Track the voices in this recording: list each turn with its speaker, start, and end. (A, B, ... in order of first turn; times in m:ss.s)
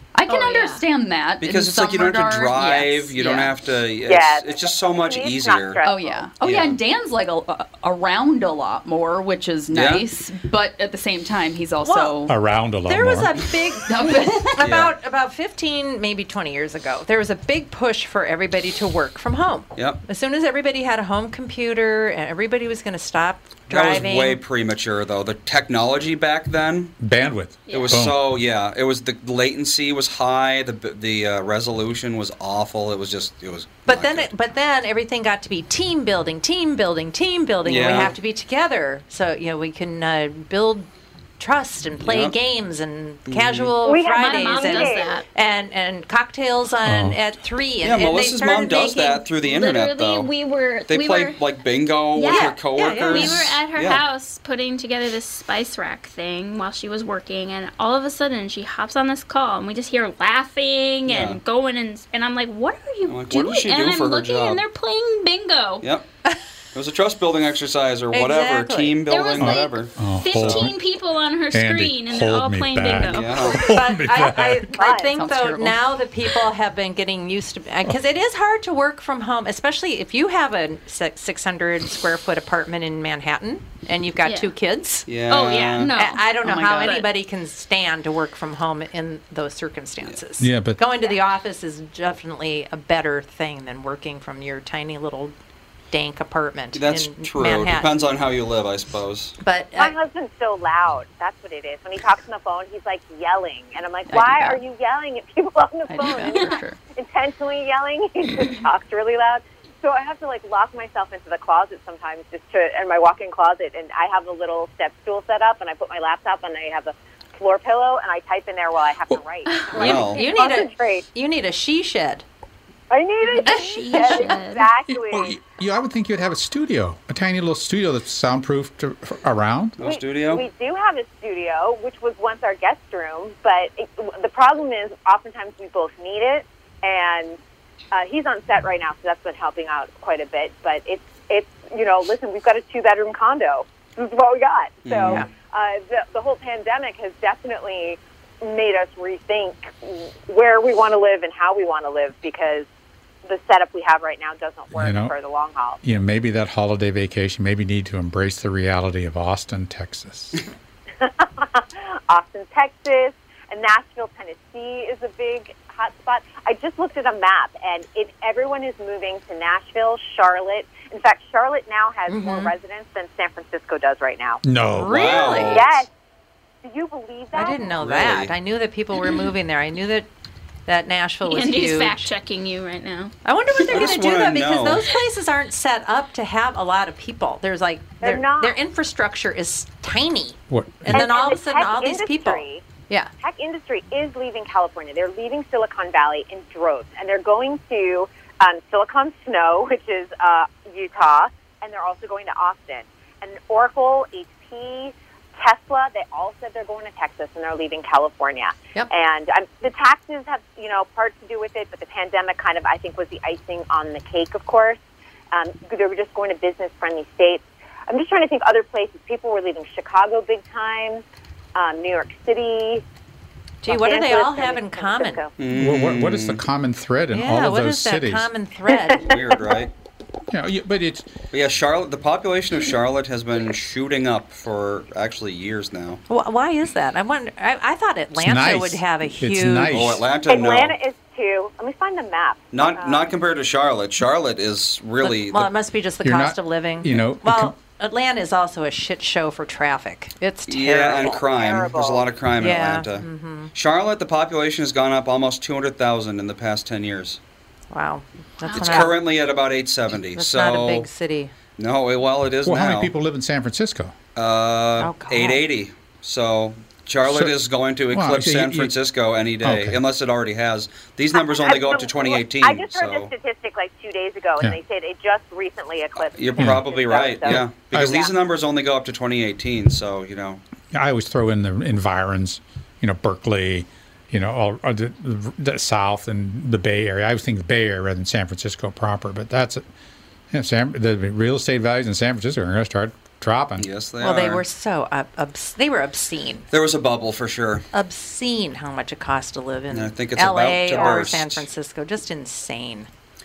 0:00.2-0:03.5 A
0:00.3-0:00.8 B
0:01.4-0:05.8 C
0:04.0-0:06.2 D
0:05.8-0:12.3 A
0:06.4-0:06.8 C
0:09.7-0:10.1 C
0:11.8-0:12.2 E
0:12.3-0:13.3 F
0:12.8-0:24.4 E
0:13.9-0:14.7 A
0:14.6-0:14.9 C
0:19.8-0:20.0 C
0:23.7-0:27.0 C
0:27.0-0:28.3 F
0:27.7-0:28.0 B
0:27.7-0:34.3 C
0:33.8-0:49.0 E
0:37.6-0:38.2 C
0:42.0-0:42.4 C
0:43.3-0:43.8 C
0:43.8-0:45.1 D
0:44.1-0:45.2 B
0:46.8-0:47.2 F
0:47.8-0:50.3 C
0:48.8-0:51.4 B
0:50.9-0:54.0 C
0:52.1-0:53.6 E
0:52.1-1:05.9 B
1:01.1-1:01.4 C
1:03.1-1:04.6 C
1:06.7-1:10.7 C
1:08.1-1:09.1 E
1:09.1-1:13.6 B
1:09.4-1:10.8 F
1:11.5-1:14.7 F
1:13.1-1:13.6 C
1:13.3-1:25.1 E
1:14.8-1:15.1 D
1:15.1-1:15.8 A
1:24.2-1:24.6 B
1:25.1-1:26.0 C
1:25.1-1:27.1 B
1:25.9-1:35.3 E
1:26.4-1:27.0 A
1:30.4-1:30.8 F
1:35.9-1:38.0 E
1:36.7-1:39.4 C
1:39.4-1:40.0 E
1:39.8-2:01.0 D
1:44.1-1:44.6 A
1:45.9-1:46.8 A
1:59.5-2:00.4 B
1:59.8-2:02.2 E
1:59.8-2:00.2 C
2:02.9-2:05.4 D
2:03.3-2:04.7 B
2:04.9-2:09.8 F
2:09.8-2:10.4 C
2:09.8-2:17.4 D
2:17.9-2:32.7 D
2:24.8-2:25.3 C
2:25.0-2:25.3 E
2:33.2-2:35.8 D
2:34.8-2:35.1 F
2:35.8-2:40.4 F
2:41.0-2:54.4 D
2:52.1-2:52.5 E
2:54.4-2:55.4 F
2:54.8-2:55.8 C
2:54.8-2:55.8 E
2:55.0-2:55.6 A
2:55.5-2:55.9 D
2:56.6-2:57.8 D
2:57.3-3:00.1 E
2:57.8-2:58.3 C
3:00.7-3:02.1 E
3:01.2-3:03.1 B
3:03.2-3:13.1 E
3:03.6-3:04.8 C
3:08.0-3:08.6 D
3:10.5-3:11.1 F
3:10.9-3:12.7 D
3:13.2-3:34.8 D
3:35.3-3:41.0 D
3:41.6-3:42.8 D
3:43.6-3:45.2 E
3:43.7-3:45.3 D
3:45.4-3:46.4 C
3:45.5-3:48.3 F
3:47.1-3:49.1 E
3:49.0-3:49.7 C
3:50.3-3:51.1 F
3:51.3-3:56.0 C
3:56.1-4:00.0 E
3:58.2-4:00.1 F
3:59.7-4:00.8 C
4:00.3-4:03.1 D
4:02.5-4:05.5 C
4:05.0-4:11.2 E
4:06.0-4:07.6 F
4:10.5-4:17.2 C
4:11.0-4:12.1 D
4:12.4-4:13.5 E
4:17.7-4:19.1 E
4:18.4-4:18.9 B
4:18.6-4:20.9 C
4:20.1-4:21.3 E
4:21.6-4:22.9 C
4:22.4-4:24.0 F
4:24.2-4:33.1 C
4:24.8-4:25.4 E
4:27.0-4:27.4 F
4:27.9-4:28.8 F
4:29.4-4:29.8 F
4:31.4-4:38.1 D
4:36.2-4:40.4 C
4:36.4-4:36.7 F
4:37.3-4:38.0 F
4:40.7-4:49.6 F
4:50.3-4:53.7 F
4:53.6-4:54.4 C
4:54.0-4:56.5 E
4:56.5-4:57.7 C
4:57.7-5:02.9 E
4:59.7-5:01.5 C
5:00.7-5:01.1 D